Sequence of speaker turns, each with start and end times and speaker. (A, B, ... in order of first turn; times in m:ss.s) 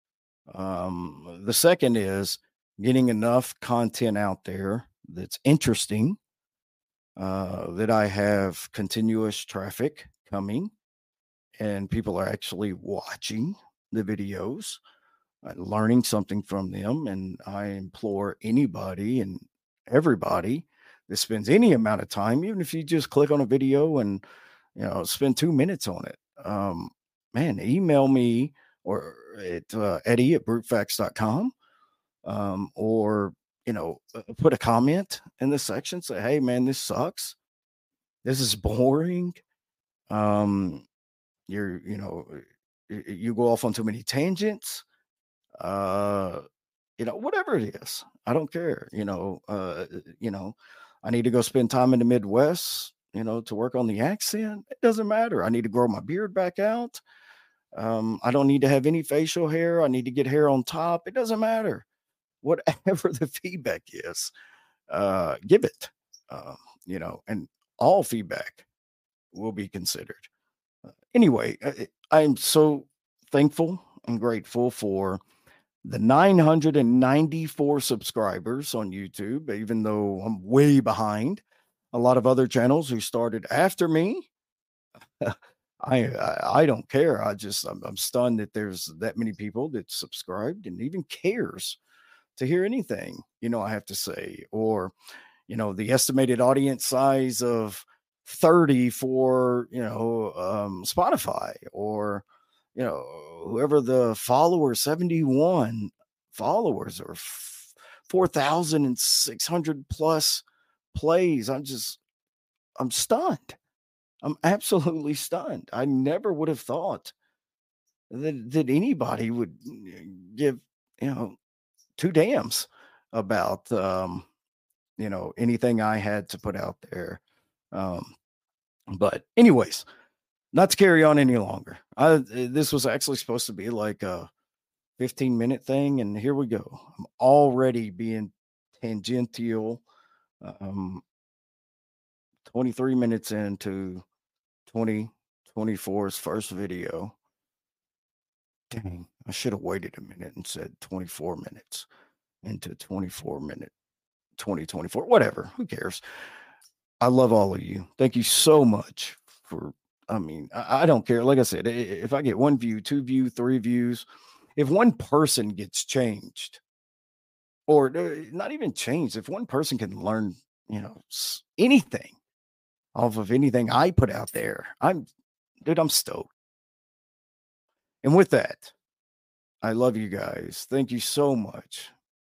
0:00.5-0:06.2 A
0:07.2-0:10.7 A
0:11.6-0:14.8 A
0:15.4-0:24.2 A
0:24.8-0:31.5 A
0:32.2-0:37.4 A
0:38.2-0:39.4 A
0:40.1-0:40.8 A
0:41.5-0:44.8 A
0:45.6-0:46.4 A
0:47.0-0:57.0 A
0:57.7-1:01.8 A
1:02.4-1:04.3 A
1:04.9-1:08.6 A
1:09.3-1:10.3 A
1:11.1-1:15.2 A
1:15.8-1:24.3 A
1:25.2-1:31.8 A
1:32.4-1:34.9 A
1:35.5-1:52.0 A
1:52.8-1:53.6 A
1:54.2-1:57.1 A
1:58.1-2:01.3 A
2:02.0-2:04.3 A
2:05.0-2:07.2 A
2:07.7-2:08.1 A
2:08.9-2:09.9 A
2:10.5-2:14.3 A
2:15.0-2:19.8 A
2:20.4-2:21.0 A
2:22.4-2:24.0 A
2:24.7-2:27.2 A
2:28.7-2:31.9 A
2:32.4-2:33.7 A
2:34.4-2:36.0 A
2:37.0-2:44.0 A
2:44.6-2:46.6 A
2:47.7-2:52.2 A
2:52.9-2:55.0 A
2:55.6-2:56.3 A
2:58.0-2:58.7 A
2:59.6-3:01.9 A